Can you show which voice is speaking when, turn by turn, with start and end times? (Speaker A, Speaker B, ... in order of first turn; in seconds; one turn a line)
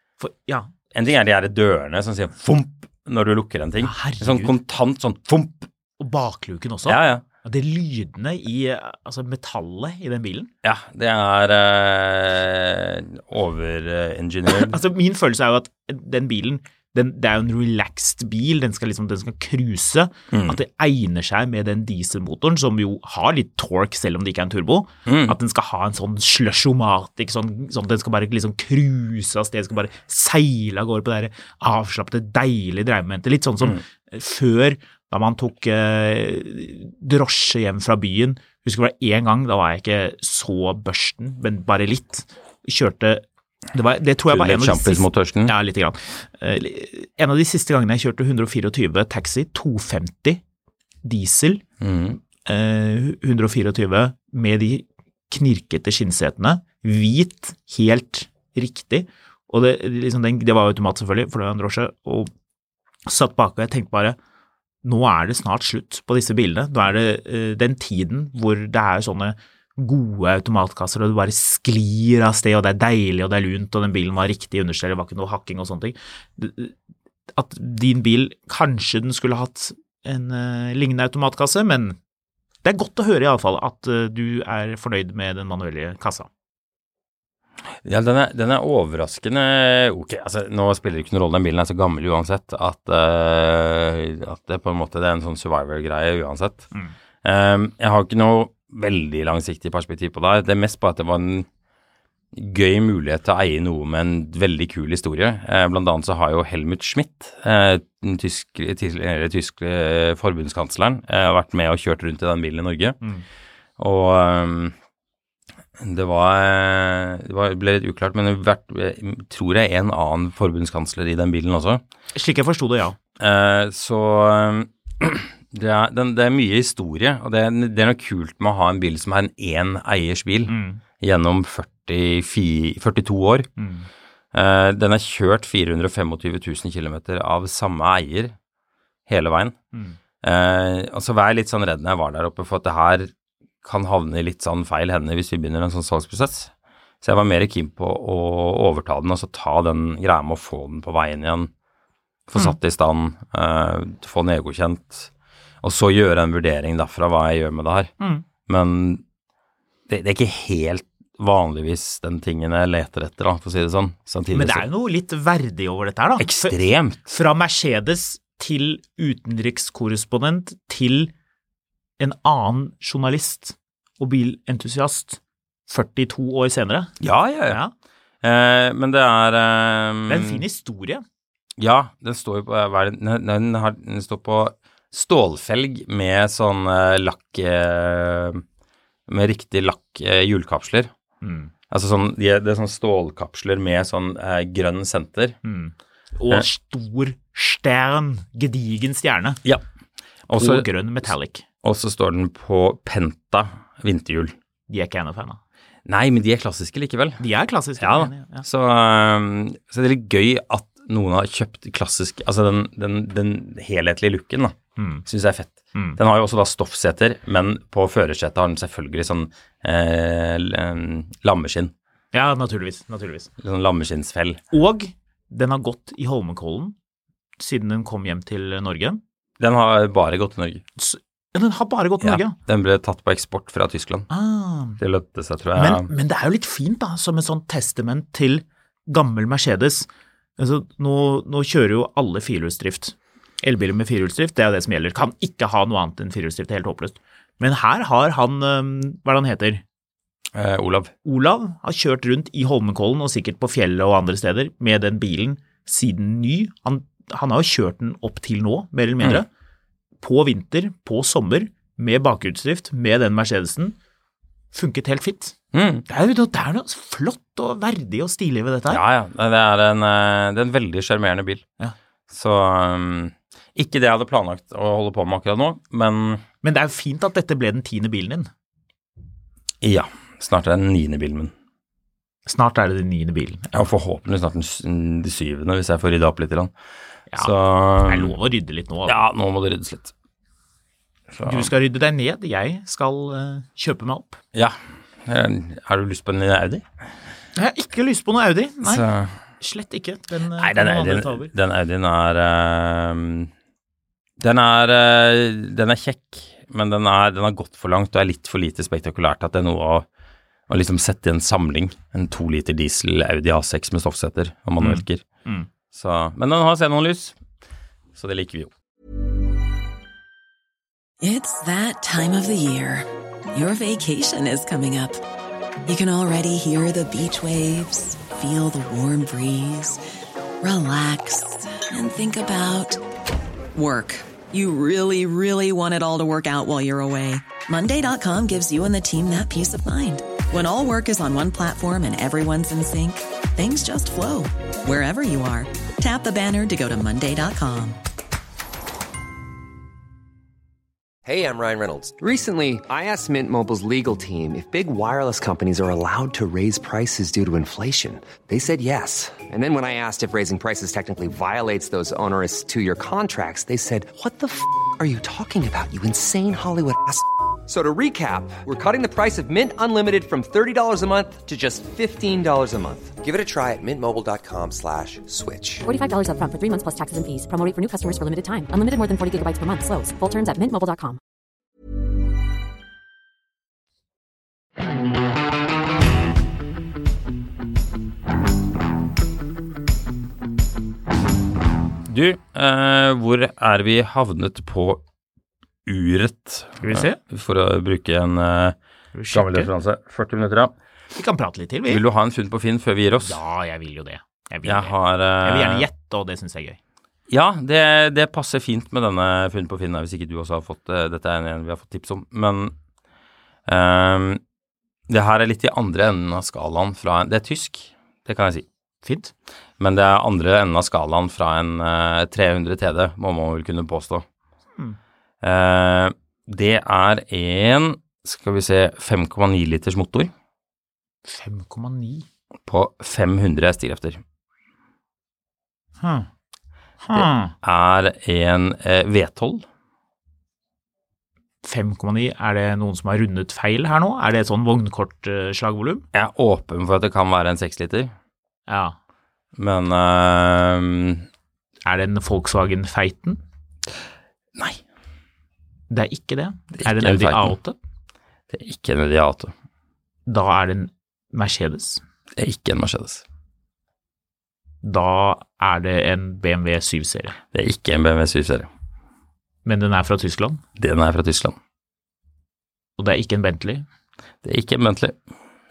Speaker A: 0.2-0.7
Speaker B: 0.9-5.7
Speaker A: 3.8-4.5
Speaker A: 6.0-10.5
Speaker B: 6.9-7.2
Speaker B: 10.6-14.8
Speaker A: 14.5-43.2
Speaker B: 20.3-20.6
Speaker B: 25.1-25.4
Speaker A: 43.7-50.4
Speaker B: 44.3-45.5
Speaker A: 51.0-51.6
Speaker B: 51.8-52.2
Speaker A: 52.4-62.3
Speaker A: 63.1-64.2
Speaker A: 64.8-76.8
Speaker A: 77.3-82.0
Speaker A: 82.6-86.3
Speaker B: 87.8-96.7
Speaker B: 97.2-101.5
Speaker B: 102.3-113.0
Speaker B: 113.8-114.7
Speaker B: 115.8-121.8
Speaker A: 122.2-123.0
Speaker B: 123.2-133.5
Speaker A: 130.5-130.8
Speaker A: 133.6-133.9
Speaker B: 134.3-138.3
Speaker B: 139.1-139.6
Speaker A: 139.7-140.0
Speaker B: 140.2-143.1
Speaker B: 143.6-146.5
Speaker B: 147.0-151.5
Speaker B: 152.3-155.1
Speaker B: 155.6-157.9
Speaker A: 158.0-158.2
Speaker B: 158.5-159.0
Speaker B: 159.9-164.7
Speaker A: 164.3-166.5
Speaker B: 166.2-167.1
Speaker A: 167.1-171.1
Speaker A: 172.0-177.0
Speaker B: 177.0-177.6
Speaker A: 177.5-177.7
Speaker B: 178.2-180.4
Speaker A: 180.1-181.0
Speaker B: 181.6-188.4
Speaker B: 189.1-190.9
Speaker A: 191.2-191.5
Speaker B: 191.7-195.4
Speaker A: 195.4-199.4
Speaker B: 200.3-200.7
Speaker A: 200.3-201.4
Speaker B: 201.6-204.3
Speaker A: 204.7-205.4
Speaker B: 205.9-207.2
Speaker A: 207.2-208.4
Speaker B: 207.8-214.6
Speaker A: 214.8-215.1
Speaker B: 215.1-221.7
Speaker A: 222.1-223.3
Speaker B: 223.4-224.4
Speaker A: 224.5-226.8
Speaker A: 227.4-229.0
Speaker B: 229.4-230.6
Speaker A: 230.8-232.4
Speaker B: 232.0-234.1
Speaker A: 234.1-234.8
Speaker B: 234.8-235.9
Speaker A: 235.6-239.9
Speaker A: 240.4-249.6
Speaker B: 250.3-250.9
Speaker A: 251.1-259.3
Speaker A: 260.0-263.8
Speaker A: 264.5-265.4
Speaker B: 265.5-265.9
Speaker A: 265.9-268.8
Speaker B: 268.7-271.4
Speaker B: 272.1-276.2
Speaker A: 276.4-278.3
Speaker B: 279.6-281.3
Speaker A: 282.3-283.7
Speaker B: 283.5-286.5
Speaker B: 287.2-288.1
Speaker A: 287.9-289.0
Speaker B: 288.9-289.9
Speaker B: 291.1-291.5
Speaker A: 291.2-294.2
Speaker B: 294.3-296.6
Speaker A: 297.4-298.9
Speaker B: 298.6-299.1
Speaker A: 299.4-301.3
Speaker B: 300.4-303.3
Speaker B: 304.2-309.9
Speaker B: 310.5-315.0
Speaker A: 314.6-315.5
Speaker B: 315.7-317.2
Speaker B: 317.9-318.5
Speaker C: 321.0-325.0
Speaker C: 325.6-329.8
Speaker C: 330.4-332.8
Speaker C: 333.6-347.8
Speaker D: 351.1-375.7
Speaker E: 375.6-381.0
Speaker B: 391.9-394.8
Speaker B: 395.7-398.6
Speaker A: 396.6-397.0
Speaker A: 398.9-399.5
Speaker B: 399.1-400.5
Speaker A: 400.9-401.8
Speaker B: 401.7-403.2
Speaker A: 403.0-406.6
Speaker B: 404.4-405.7
Speaker B: 407.1-412.5
Speaker B: 413.5-414.2
Speaker B: 414.9-418.5
Speaker A: 418.8-419.1
Speaker B: 419.6-424.1
Speaker B: 425.2-430.1
Speaker A: 431.1-432.1
Speaker B: 432.5-434.0
Speaker A: 435.8-436.1
Speaker A: 436.8-437.4
Speaker B: 436.9-439.4
Speaker A: 441.4-445.9
Speaker B: 445.9-447.9
Speaker A: 448.5-448.8
Speaker B: 449.4-451.1
Speaker A: 451.6-453.2
Speaker A: 455.7-457.6
Speaker B: 456.5-457.4
Speaker B: 458.3-459.3
Speaker A: 460.1-461.8
Speaker B: 462.2-463.0
Speaker A: 464.6-467.2
Speaker B: 467.3-468.5
Speaker A: 469.4-470.4
Speaker B: 470.6-471.4
Speaker A: 472.8-473.6
Speaker B: 474.2-475.0